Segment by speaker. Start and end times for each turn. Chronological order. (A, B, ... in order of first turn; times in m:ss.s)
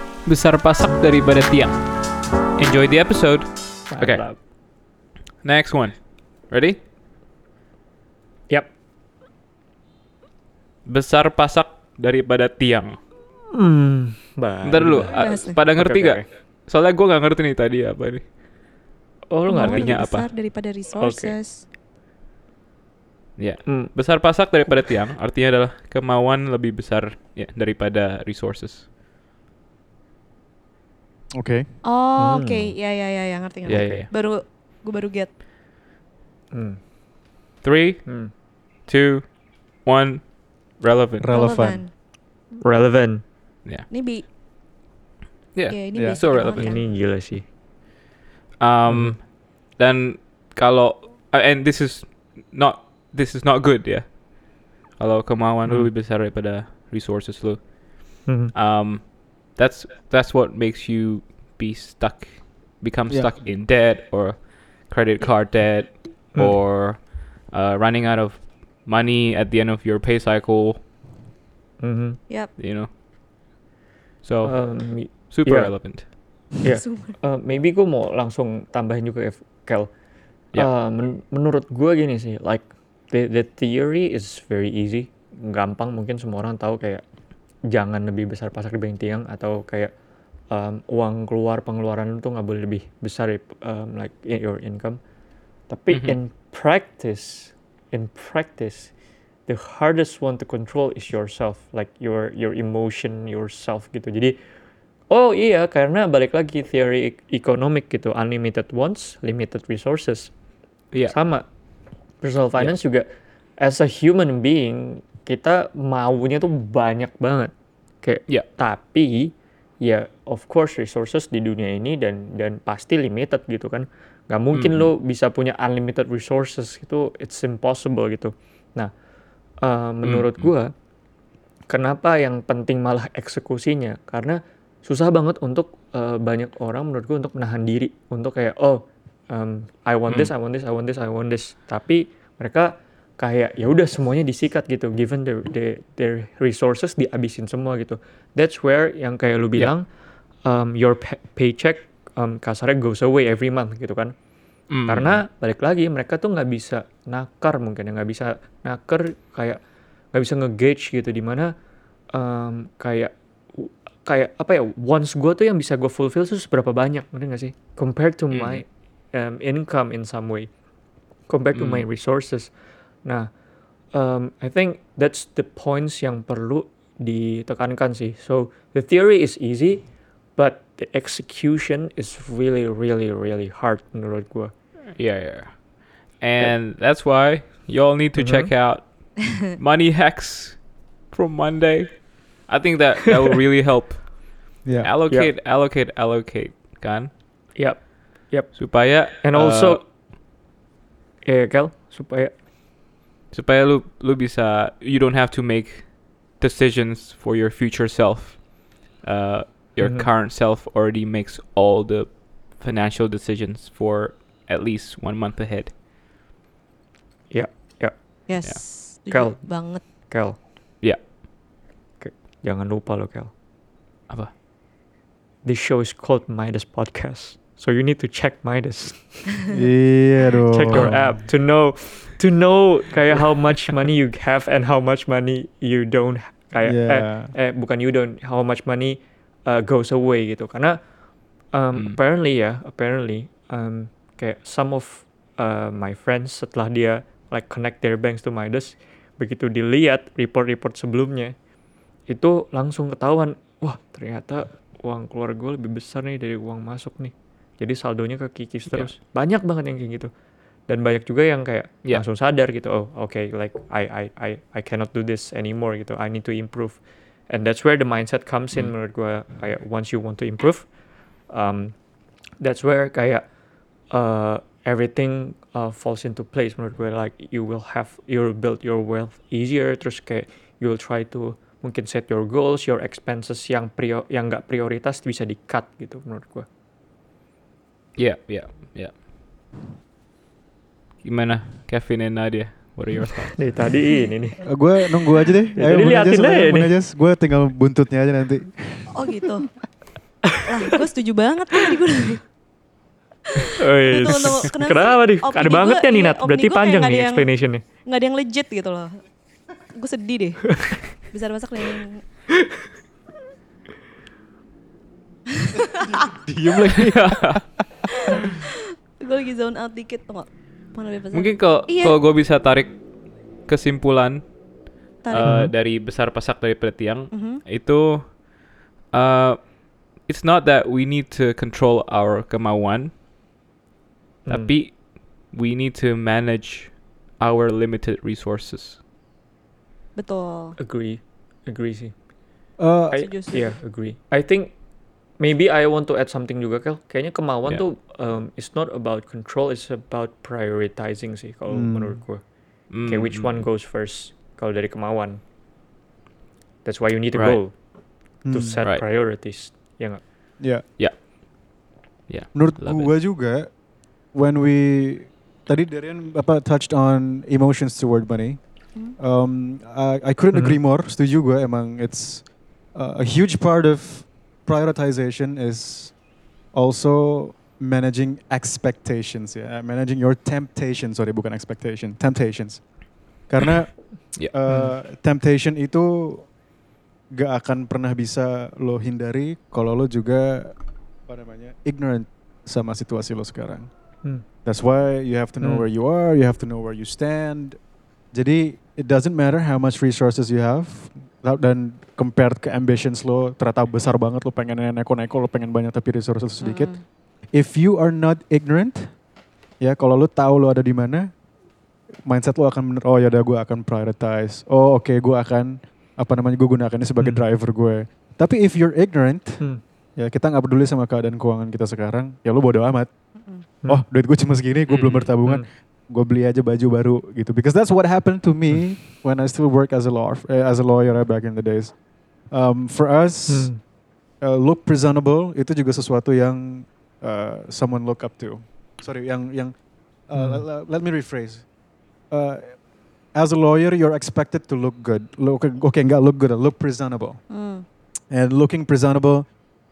0:00.2-0:01.9 A
0:02.6-0:04.2 A
0:03.9-0:04.4 B
0:05.4-0:06.8 A
0:10.8-0:13.0 A
0:13.5-0:16.2 B
0:14.6-0:18.3 A
0:15.1-0:15.6 C
0:19.3-0:20.0 B
0:19.5-0:21.6 C
0:19.5-0:20.3 A
0:21.0-0:21.4 B
0:23.4-0:28.9 A
0:23.6-0:23.9 B
0:31.3-0:31.7 D
0:31.8-0:35.3 C
0:32.2-0:32.7 B
0:33.6-0:34.1 A
0:33.6-0:34.0 B
0:36.5-0:36.8 B
0:37.6-0:41.3 A
0:38.0-0:38.3 B
0:41.2-0:41.8 D
0:41.3-0:41.9 C
0:42.6-0:43.2 B
0:43.9-0:44.2 C
0:45.5-0:46.8 A
0:45.7-0:46.9 C
0:45.9-0:46.2 D
0:46.6-0:47.4 B
0:48.6-1:10.8 A
0:48.9-0:49.2 B
0:55.6-0:55.9 B
0:58.2-0:58.5 B
1:03.1-1:03.3 D
1:11.8-1:12.2 B
1:12.3-1:12.5 C
1:12.6-1:12.9 A
1:14.2-1:16.1 A
1:14.4-1:19.9 B
1:16.6-1:17.2 C
1:20.4-1:27.0 B
1:27.7-1:29.9 B
1:30.5-1:35.0 B
1:35.7-1:38.9 B
1:35.9-1:36.2 A
1:39.4-1:44.4 B
1:45.1-1:50.4 B
1:50.9-1:51.4 B
1:52.2-1:53.1 B
1:53.6-2:08.9 B
2:04.5-2:04.9 A
2:09.6-2:10.7 B
2:10.0-2:10.5 A
2:11.7-2:29.9 B
2:30.4-2:34.1 B
2:34.7-2:35.2 A
2:34.8-2:39.6 B
2:40.1-2:41.5 B
2:42.1-2:50.5 B
2:48.3-2:48.6 A
2:51.3-2:53.4 B
2:51.5-2:51.8 A
2:53.9-3:04.5 B
3:05.0-3:17.1 A
3:08.2-3:08.5 B
3:14.6-3:14.9 D
3:17.5-3:19.8 B
3:18.5-3:19.8 A
3:21.2-3:22.3 B
3:23.3-3:35.7 A
3:29.8-3:30.1 B
3:37.3-3:38.3 B
3:38.3-3:39.8 C
3:39.1-3:40.4 B
3:42.0-3:43.3 B
3:45.4-3:49.5 B
3:49.5-3:51.2 D
3:50.5-4:00.8 B
3:50.7-3:51.1 A
3:56.6-3:57.3 D
4:01.5-4:11.3 B
4:12.1-4:20.1 B
4:18.7-4:18.9 A
4:20.7-4:31.8 B
4:32.4-4:33.3 B
4:33.9-4:46.5 B
4:48.0-4:49.0 A
4:51.0-4:53.5 A
4:53.3-4:54.6 B
4:54.5-4:59.0 D
4:55.5-4:56.7 B
4:58.9-4:59.6 C
5:00.2-5:02.3 C
5:03.4-5:08.9 C
5:03.6-5:07.6 B
5:09.5-5:12.0 C
5:15.8-5:17.6 D
5:17.0-5:17.4 A
5:19.0-5:22.0 C
5:21.1-5:28.3 A
5:25.0-5:25.3 C
5:25.2-5:25.5 D
5:27.1-5:27.4 C
5:28.9-5:32.9 A
5:34.2-5:34.6 B
5:34.3-5:38.8 A
5:39.9-5:40.6 C
5:40.6-5:41.9 B
5:42.6-5:43.1 D
5:42.9-5:44.6 B
5:43.0-5:43.5 C
5:45.1-5:55.2 B
5:51.5-5:52.0 D
5:52.7-5:53.5 A
5:56.6-6:00.0 B
5:57.1-5:57.4 A
5:58.2-5:58.6 D
6:00.4-6:00.6 D
6:00.8-6:01.2 A
6:02.1-6:02.9 A
6:02.3-6:26.3 D
6:10.3-6:10.6 B
6:24.5-6:24.7 B
6:27.1-6:33.7 D
6:34.2-6:37.6 D
6:35.4-6:35.6 B
6:38.1-6:49.0 D
6:46.4-6:46.8 C
6:49.6-6:51.1 D
6:52.0-7:02.9 D
7:03.2-7:03.5 C
7:03.6-7:21.5 D
7:04.7-7:05.1 A
7:13.3-7:13.6 B
7:20.1-7:20.4 B
7:22.1-7:27.2 D
7:27.3-7:27.6 C
7:28.1-7:29.4 D